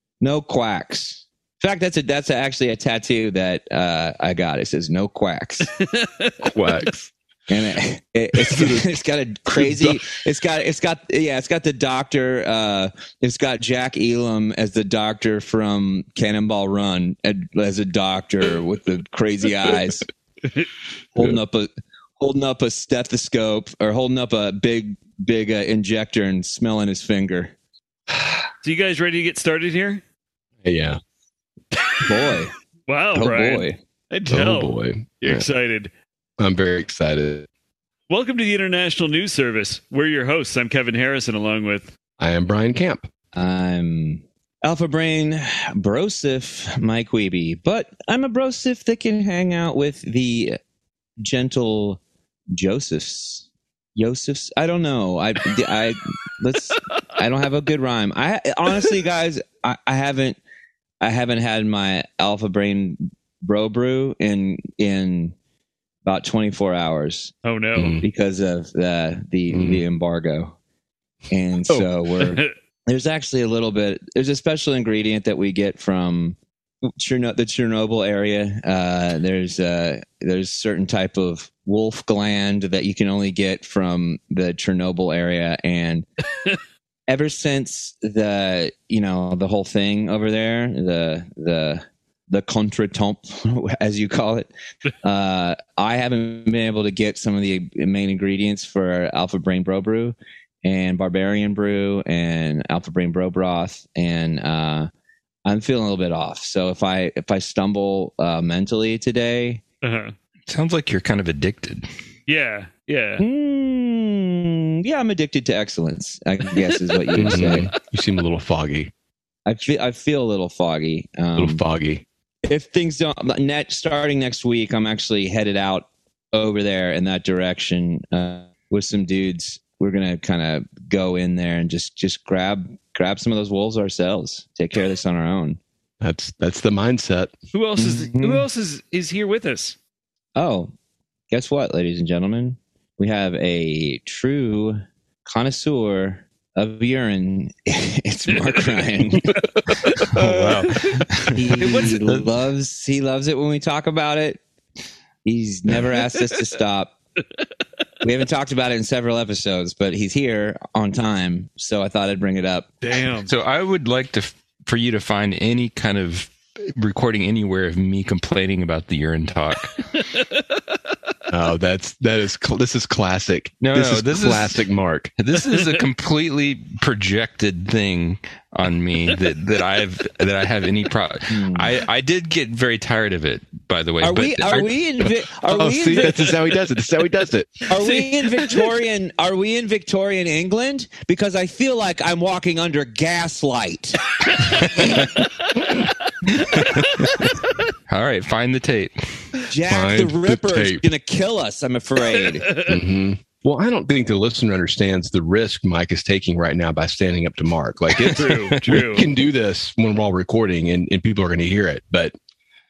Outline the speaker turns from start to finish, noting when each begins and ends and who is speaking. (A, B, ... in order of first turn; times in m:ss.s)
0:00.2-0:05.7 A
0:05.8-0:06.9 B
0:06.4-0:07.1 C
0:07.5-0:20.0 A
0:08.3-0:08.9 C
0:09.5-0:10.0 C
0:21.1-0:27.5 A
0:28.6-0:30.0 B
0:30.6-0:31.0 C
0:32.0-0:32.5 A
0:32.9-0:35.9 B
0:33.1-0:33.8 A
0:34.3-0:35.4 C
0:36.4-0:37.5 C
0:38.1-0:41.9 B
0:42.2-0:43.1 C
0:43.3-0:50.6 A
0:51.2-0:52.0 A
0:52.5-1:00.4 A
1:01.0-1:05.3 A
1:06.0-1:07.3 A
1:07.4-1:08.0 B
1:07.8-1:08.0 C
1:08.0-1:10.6 A
1:09.5-1:09.8 C
1:11.3-1:16.4 A
1:12.2-1:12.5 B
1:16.9-1:26.0 A
1:27.1-1:34.5 A
1:35.0-1:44.9 A
1:45.4-1:49.6 A
1:49.8-1:50.1 B
1:50.5-1:51.9 D
1:52.3-1:53.2 B
1:53.2-1:57.7 A
1:57.1-1:58.9 C
1:59.4-2:01.6 A
2:01.4-2:02.0 C
2:02.4-2:15.6 A
2:16.0-2:17.3 C
2:17.5-2:19.8 B
2:17.8-2:18.5 A
2:20.4-2:20.7 A
2:21.3-2:29.4 A
2:28.3-2:28.8 B
2:29.2-2:30.7 C
2:30.0-2:32.3 D
2:31.3-2:34.4 A
2:31.6-2:32.0 B
2:35.2-2:36.9 A
2:38.0-2:42.7 A
2:42.8-2:43.3 B
2:43.2-2:49.8 D
2:51.3-2:55.1 C
2:53.6-2:54.6 D
2:55.2-3:04.7 D
2:55.5-2:55.8 B
3:01.3-3:01.7 A
3:04.0-3:06.3 A
3:05.5-3:07.7 C
3:07.7-3:14.0 A
3:07.8-3:08.6 B
3:14.4-3:15.2 D
3:16.4-3:17.2 D
3:17.9-3:19.2 D
3:19.5-3:22.5 A
3:19.7-3:20.9 C
3:22.3-3:22.8 B
3:22.6-3:32.1 C
3:28.0-3:28.8 D
3:28.1-3:29.1 B